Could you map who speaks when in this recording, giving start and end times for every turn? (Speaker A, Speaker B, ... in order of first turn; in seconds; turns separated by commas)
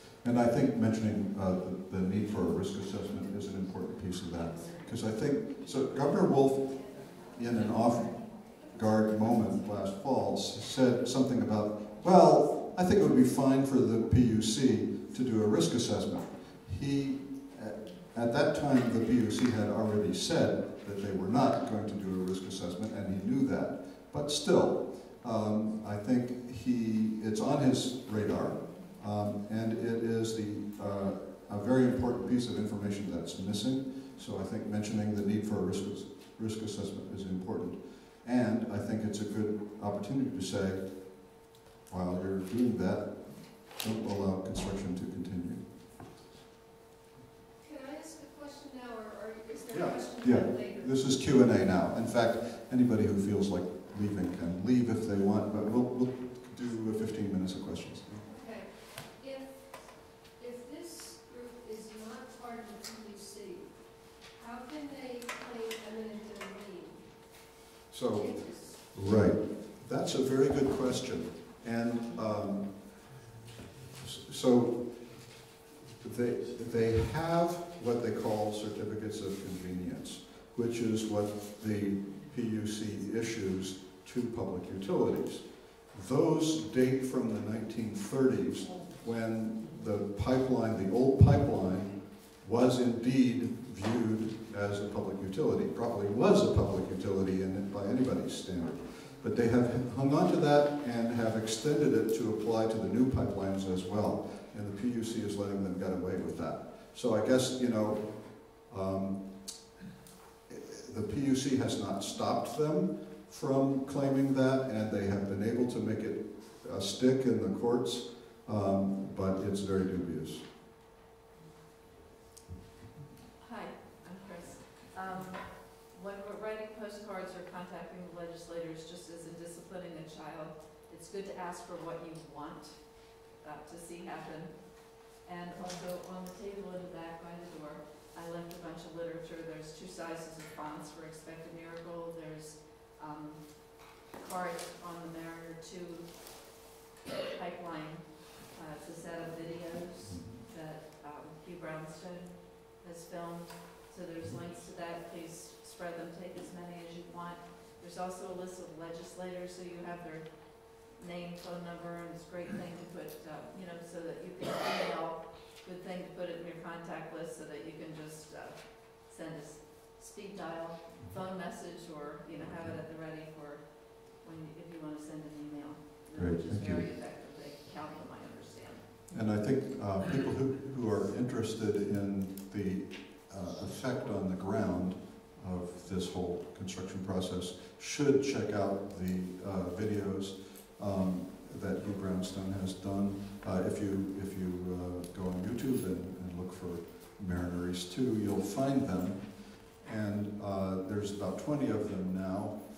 Speaker A: 0.2-40.8, Speaker A: 41.9-45.6, Speaker B: 47.6-51.0, Speaker A: 49.7-58.3, Speaker B: 58.2-67.4, Speaker A: 67.9-72.9, Speaker B: 68.1-69.3, Speaker A: 74.0-75.1, Speaker A: 76.0-109.2, Speaker A: 110.5-120.5, Speaker C: 123.4-146.6, Speaker C: 147.3-179.0, Speaker A: 150.1-150.4, Speaker A: 172.4-172.8, Speaker A: 176.1-176.9, Speaker A: 179.1-199.3, Speaker A: 199.8-202.6